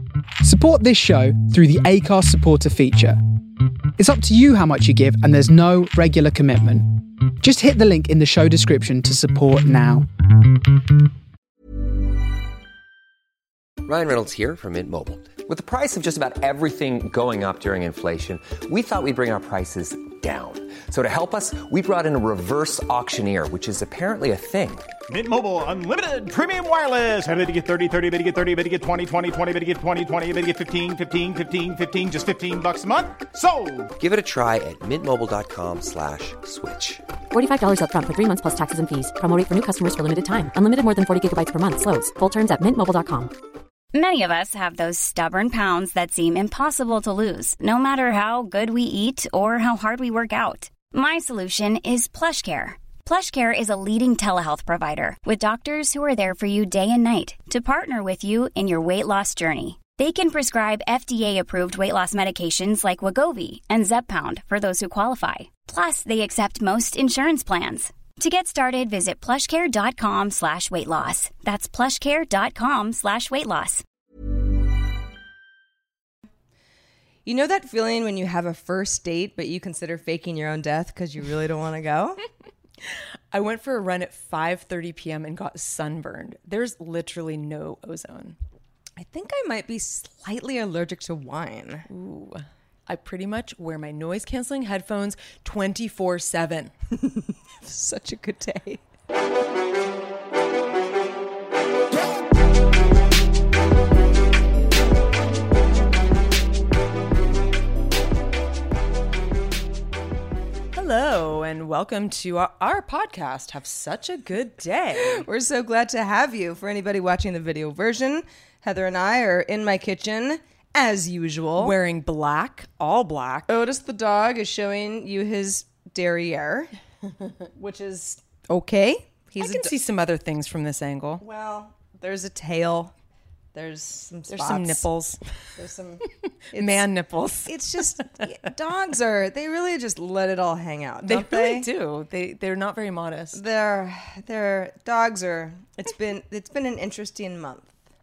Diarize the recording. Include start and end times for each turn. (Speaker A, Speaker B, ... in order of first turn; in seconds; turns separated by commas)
Speaker A: 0.4-3.2, Speaker A: 4.0-10.1, Speaker B: 13.8-24.9, Speaker C: 25.1-33.9, Speaker B: 34.0-37.0, Speaker D: 37.3-43.3, Speaker E: 43.9-73.8, Speaker F: 77.2-82.2, Speaker G: 82.8-88.3, Speaker F: 89.0-91.8, Speaker G: 91.9-96.7, Speaker F: 97.0-98.8, Speaker G: 110.7-115.2, Speaker F: 114.9-121.7, Speaker G: 121.6-123.5, Speaker F: 123.5-126.7, Speaker F: 127.5-129.7, Speaker G: 129.4-131.2, Speaker F: 131.2-132.9, Speaker F: 133.5-134.9, Speaker G: 134.3-135.2, Speaker F: 135.6-136.9, Speaker G: 136.5-138.2, Speaker F: 137.4-141.7, Speaker G: 141.0-143.4, Speaker F: 143.3-147.7